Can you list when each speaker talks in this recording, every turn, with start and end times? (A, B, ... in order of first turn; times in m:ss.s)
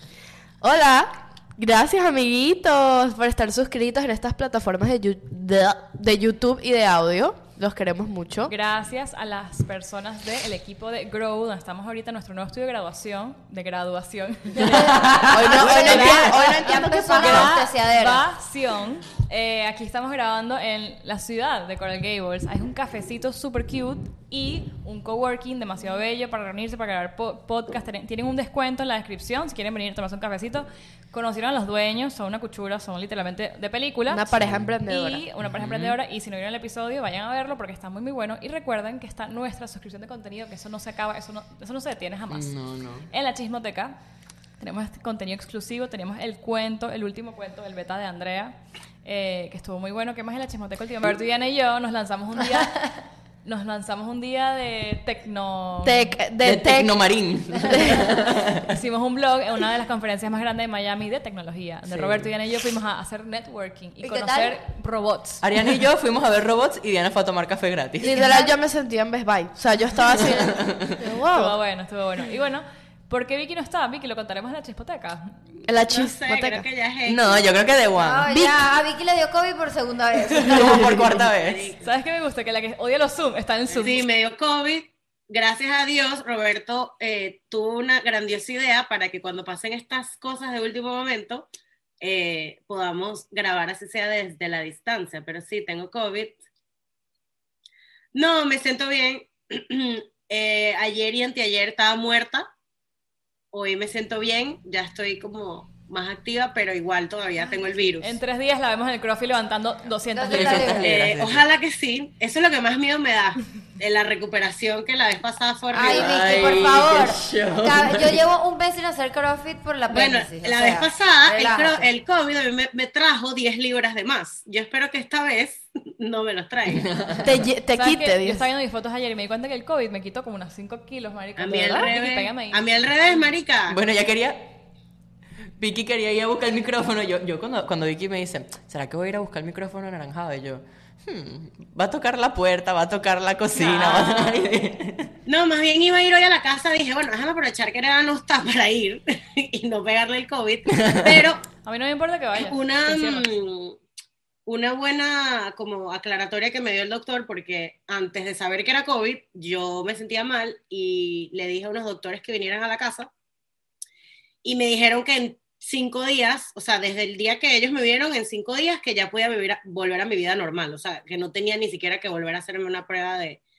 0:00.6-0:08.5 A
0:08.5-0:34.3 B
0:14.6-0:18.2 C
0:14.7-0:16.6 D
0:15.3-0:17.5 A
0:17.2-0:17.5 D
0:34.1-0:35.2 A
0:34.4-0:34.7 D
0:34.9-0:42.5 B
0:35.4-0:36.0 D
0:42.3-0:43.1 D
0:43.1-0:44.0 B
0:44.6-0:56.2 B
0:55.8-0:57.0 A
0:56.4-0:58.7 D
0:57.7-0:58.1 A
0:58.7-1:05.4 B
1:01.9-1:02.3 D
1:04.0-1:04.6 C
1:05.4-1:08.2 D
1:08.0-1:11.6 A
1:10.2-1:11.0 D
1:11.3-1:15.3 B
1:15.7-1:16.6 A
1:15.9-1:17.4 E
1:17.1-1:18.3 D
1:17.9-1:21.1 C
1:18.3-1:18.6 A
1:20.4-1:21.7 D
1:21.4-1:21.8 E
1:21.8-1:24.1 B
1:23.7-1:31.5 E
1:32.0-1:36.4 E
1:38.1-1:42.5 E
1:43.5-1:48.2 E
1:48.0-1:50.8 B
1:50.1-1:50.9 C
1:50.3-1:51.5 D
1:50.8-1:56.7 E
1:55.7-1:56.4 A
1:55.8-2:00.9 C
1:55.9-1:58.2 D
1:59.9-2:06.9 E
2:01.2-2:01.8 A
2:06.7-2:07.5 D
2:07.2-2:08.4 A
2:07.7-2:12.7 B
2:11.4-2:13.8 E
2:13.7-2:14.6 D
2:15.6-2:25.2 D
2:23.5-2:24.5 B
2:25.3-2:31.4 E
2:30.7-2:31.2 D
2:31.6-2:33.3 B
2:32.4-2:33.8 E
2:34.5-2:43.1 E
2:44.4-2:53.4 E